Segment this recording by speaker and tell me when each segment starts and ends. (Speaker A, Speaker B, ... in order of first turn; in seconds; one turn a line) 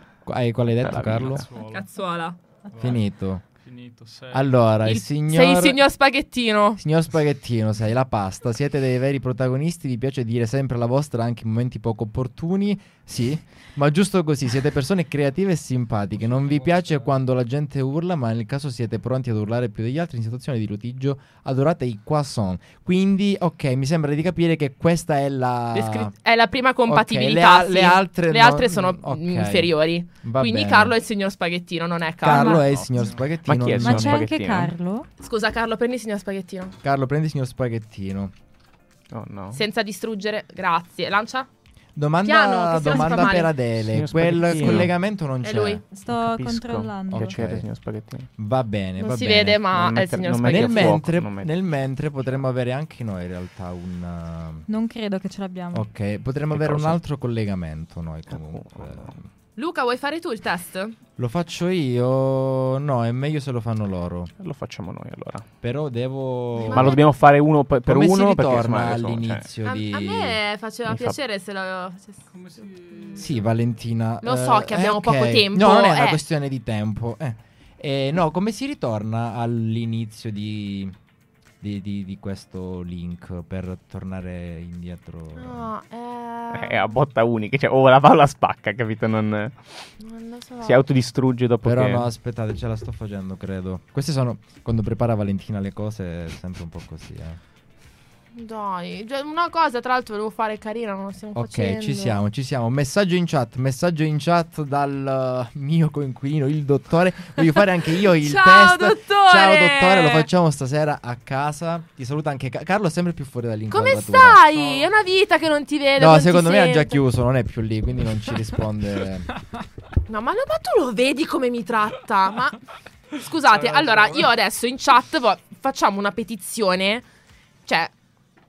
Speaker A: 0.2-1.4
Speaker B: 0.8-1.4
Speaker C: 1.0-1.9
Speaker D: 1.6-2.4
Speaker C: 2.7-4.6
Speaker A: 2.8-3.4
Speaker A: 4.3-5.8
Speaker D: 4.8-6.8
Speaker A: 6.8-26.1
Speaker C: 16.1-17.1
Speaker D: 25.7-32.7
Speaker A: 26.9-30.9
Speaker A: 32.2-34.2
Speaker E: 32.3-32.6
Speaker C: 32.5-33.3
Speaker B: 33.4-34.7
Speaker E: 33.8-35.1
Speaker D: 35.2-36.7
Speaker A: 36.8-38.3
Speaker B: 39.1-39.6
Speaker D: 39.5-41.5
Speaker A: 42.0-45.8
Speaker D: 42.2-43.5
Speaker B: 43.8-44.9
Speaker D: 45.4-45.8
Speaker E: 45.9-47.4
Speaker B: 46.1-48.3
Speaker A: 47.1-47.7
Speaker A: 48.4-49.7
Speaker D: 49.0-51.0
Speaker B: 49.7-51.5
Speaker A: 50.5-54.7
Speaker E: 54.7-55.9
Speaker A: 55.7-59.3
Speaker B: 56.5-57.0
Speaker B: 58.3-59.1
Speaker D: 59.6-61.0
Speaker A: 61.2-64.3
Speaker B: 64.4-65.5
Speaker A: 65.6-67.0
Speaker D: 66.6-67.0
Speaker B: 66.7-69.4
Speaker A: 67.8-70.4
Speaker D: 69.6-72.2
Speaker B: 70.8-71.2
Speaker C: 72.3-73.5
Speaker A: 73.2-80.9
Speaker D: 74.2-76.2
Speaker A: 81.6-85.7
Speaker D: 85.3-86.9
Speaker B: 86.5-89.7
Speaker D: 90.0-90.8
Speaker B: 90.6-92.1
Speaker A: 91.6-97.4
Speaker D: 98.3-102.2
Speaker A: 101.3-114.4
Speaker D: 108.2-110.3
Speaker D: 113.7-117.0
Speaker C: 114.5-114.9
Speaker A: 116.0-119.3
Speaker D: 120.1-122.6
Speaker D: 123.2-127.0
Speaker C: 123.3-124.3
Speaker D: 127.7-127.9